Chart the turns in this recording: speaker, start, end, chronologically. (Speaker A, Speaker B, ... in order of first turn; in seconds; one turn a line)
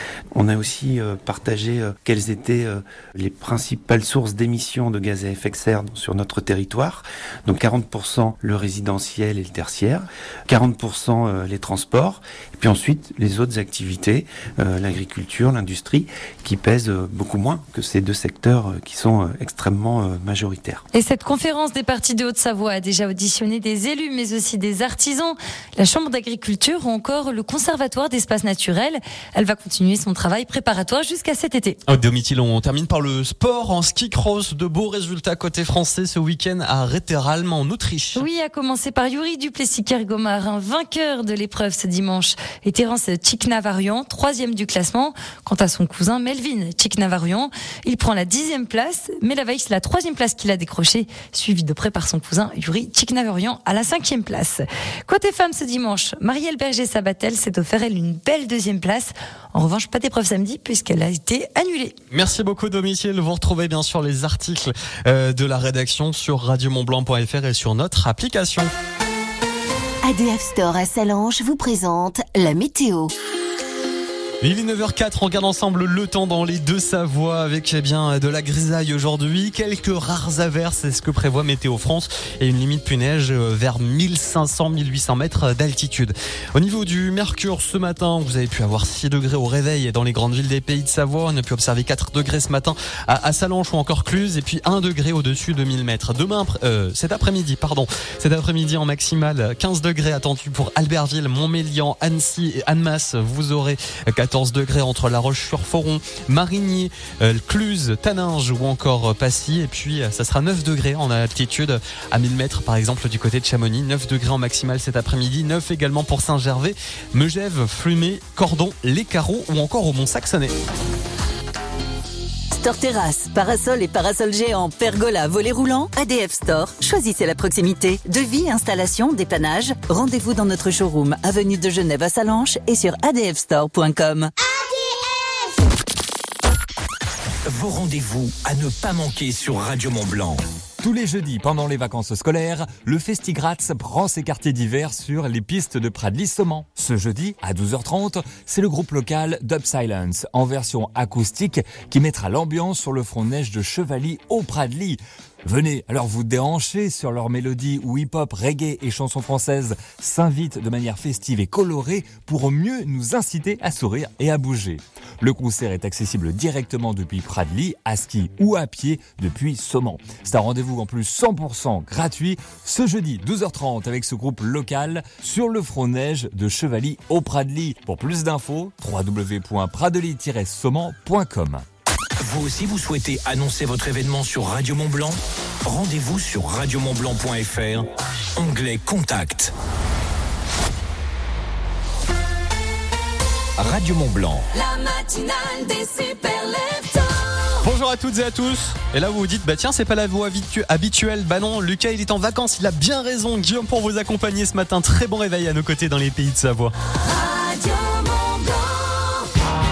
Speaker A: 0.3-20.8
Speaker B: 20.9-31.8
Speaker C: 31.9-38.2
Speaker B: 38.1-62.0
Speaker C: 62.1-68.7
Speaker D: 70.0-73.1
Speaker C: 74.4-120.5
Speaker E: 122.5-134.3
Speaker F: 137.4-140.4
Speaker G: 140.8-181.6
Speaker F: 182.2-189.5
Speaker F: 193.6-194.5
Speaker H: 194.5-197.4
Speaker C: 197.6-206.7
Speaker H: 207.1-209.2